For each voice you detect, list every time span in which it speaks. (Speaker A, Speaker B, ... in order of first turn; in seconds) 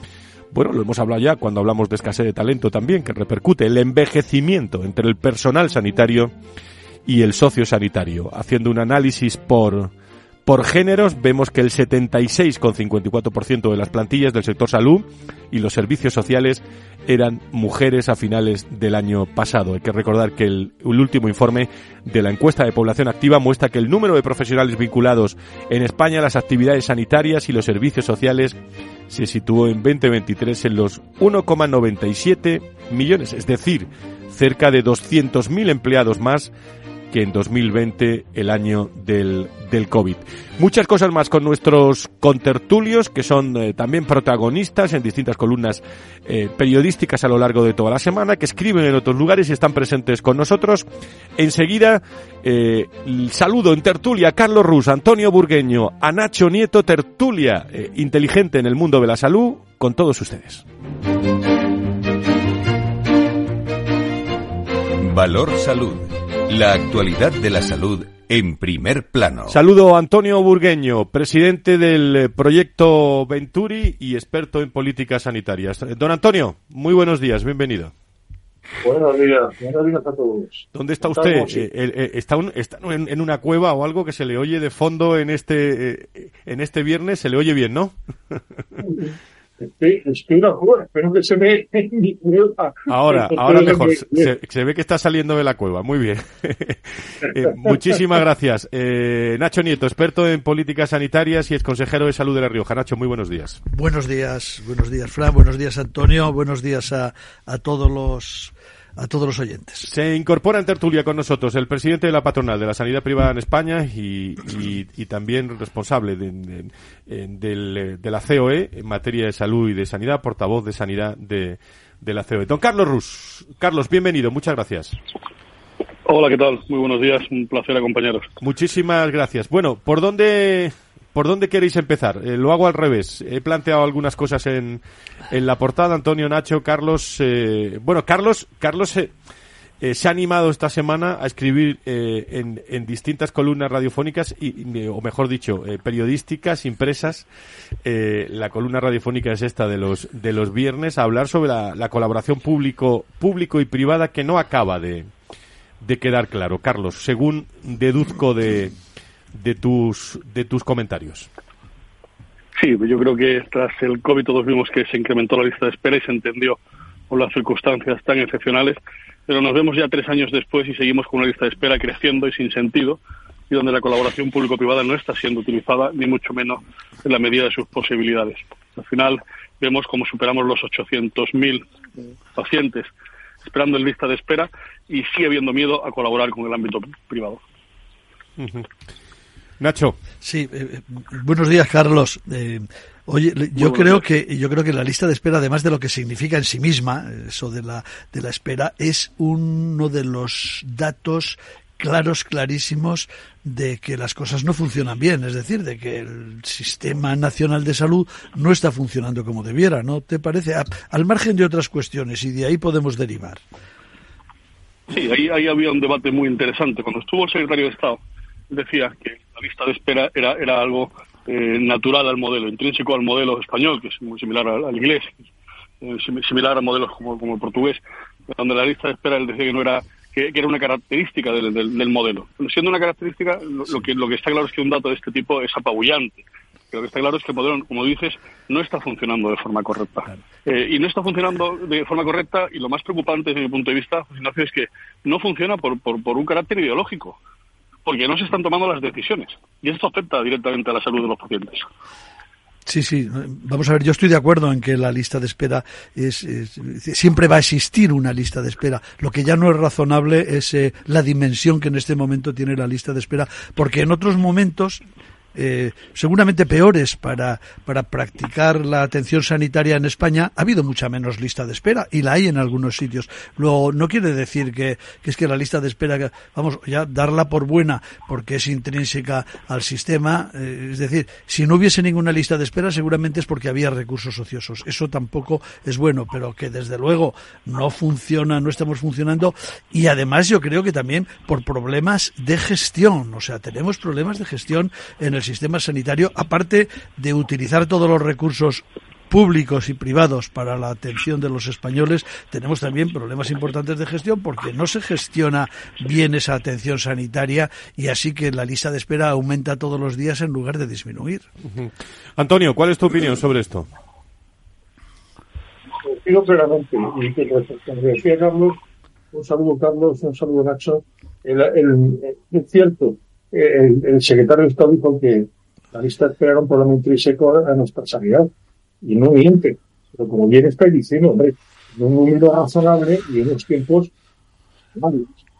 Speaker A: 0.5-6.3, 7.1-9.9, 10.5-28.6, 29.1-36.5, 37.1-50.9, 51.4-60.6, 69.5-77.9, 80.7-88.4, 92.9-103.6, 109.8-125.0, 128.4-139.1, 139.8-147.3, 147.8-155.1, 155.8-158.7, 159.3-161.3, 188.4-188.7, 189.6-190.0, 311.5-313.7
Speaker B: 65.0-69.6
Speaker C: 78.8-81.7, 88.8-94.3, 315.8-318.6, 319.1-328.3, 328.8-333.9, 334.8-335.1
Speaker D: 103.7-109.9, 190.2-213.4, 252.7-264.8, 265.4-311.3
Speaker E: 126.1-128.3, 162.6-166.6, 167.1-181.6, 182.3-182.9, 183.4-187.4, 193.6-194.0, 214.9-225.2, 225.8-227.8, 228.3-247.2, 247.8-251.7